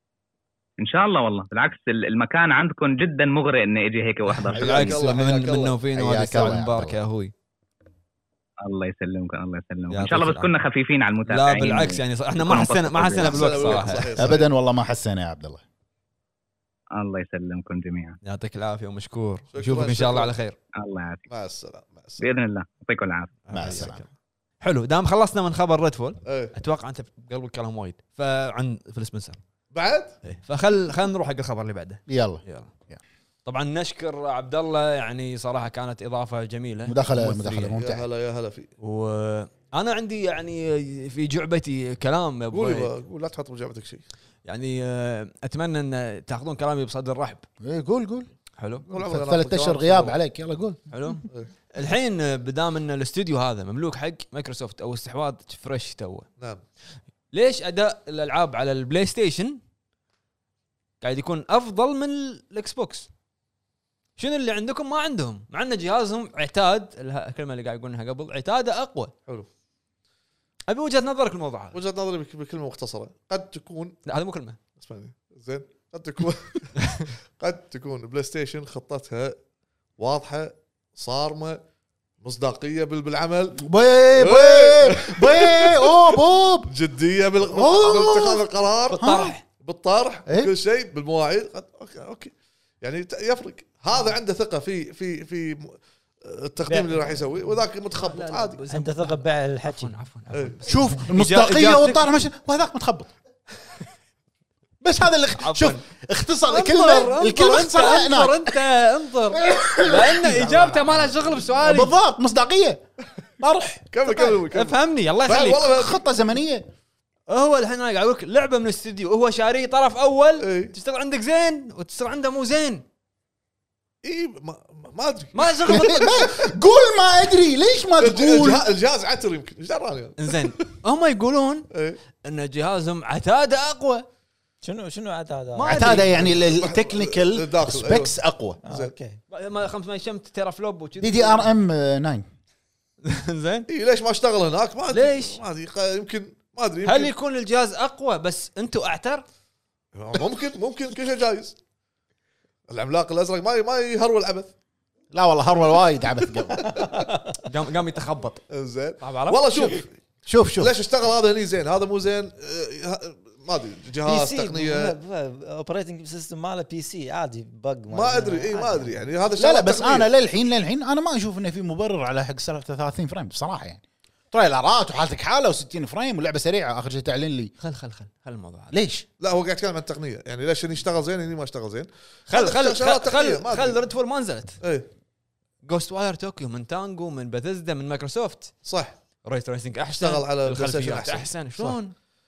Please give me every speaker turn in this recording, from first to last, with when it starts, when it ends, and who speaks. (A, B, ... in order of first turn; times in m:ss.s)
0:00.8-0:05.0 A
0:04.3-0:07.3 B
0:04.5-0:05.8 C
0:05.9-0:07.0 D
0:08.6-0:13.9 A
0:09.9-0:10.5 B
0:11.3-0:14.4 B
0:13.1-0:14.5 C
0:14.2-0:15.6 D
0:16.9-0:18.2 A
0:18.2-0:20.6 B
0:19.5-0:20.3 C
0:20.8-0:21.3 A
0:21.3-0:22.2 C
0:22.2-0:23.4 A
0:23.5-0:24.1 B
0:23.5-0:24.0 D
0:24.6-0:29.4 B
0:26.2-0:26.5 C
0:29.7-0:30.2 C
0:30.2-0:32.7 B
0:32.1-0:33.0 D
0:33.4-0:37.8 B
0:36.9-0:38.0 D
0:37.8-0:38.7 C
0:38.8-0:42.9 B
0:42.5-0:44.0 C
0:44.4-0:47.4 B
0:47.6-0:48.3 D
0:48.6-0:48.8 B
0:48.9-0:50.2 C
0:48.9-0:50.8 D
0:50.9-0:56.3 B
0:57.3-0:59.6 B
1:01.0-1:03.1 B
1:04.2-1:09.1 B
1:10.7-1:11.8 B
1:11.7-1:14.0 C
1:14.1-1:14.6 B
1:14.8-1:19.4 C
1:16.8-1:17.1 B
1:20.0-1:21.6 C
1:22.2-1:23.6 C
1:23.6-1:26.7 D
1:24.2-1:38.6 C
1:27.5-1:28.4 D
1:28.9-1:29.4 B
1:29.0-1:29.4 D
1:36.6-1:37.2 E
1:37.9-1:42.2 B
1:38.7-1:39.9 E
1:40.3-1:40.6 C
1:40.7-1:43.1 D
1:44.8-1:48.6 D
1:45.4-1:45.8 B
1:46.6-1:47.2 C
1:46.6-1:51.9 B
1:49.3-1:52.8 D
1:53.4-1:54.2 D
1:53.9-1:56.0 C
1:54.4-1:55.8 B
1:55.7-1:56.7 D
1:57.3-2:02.8 B
2:00.4-2:00.7 C
2:04.0-2:06.4 C
2:05.3-2:06.3 B
2:05.7-2:08.6 D
2:08.0-2:10.7 C
2:10.2-2:11.7 B
2:11.7-2:12.0 C
2:12.2-2:14.1 B
2:14.6-2:16.0 E
2:15.5-2:16.2 B
2:15.6-2:18.6 D
2:16.2-2:18.9 C
2:18.6-2:19.2 E
2:19.3-2:21.5 B
2:21.0-2:22.3 D
2:23.0-2:23.7 B
2:23.7-2:27.1 C
2:24.9-2:25.4 B
2:26.8-2:29.2 B
2:30.0-2:31.6 C
2:32.7-2:34.5 C
2:35.1-2:36.8 D
2:36.6-2:37.2 E
2:37.4-2:38.4 B
2:38.5-2:39.9 C
2:39.0-2:39.8 B
2:40.3-2:40.7 D
2:40.6-2:45.0 C
2:44.0-2:49.1 E
2:47.9-2:50.1 C
2:49.4-2:57.5 D
2:57.6-2:58.7 B
2:58.7-2:59.0 D
2:59.2-3:03.8 C
3:02.3-3:04.6 B
3:04.6-3:04.9 C
3:05.6-3:08.5 B
3:08.6-3:09.0 C
3:09.2-3:12.0 B
3:09.9-3:11.3 C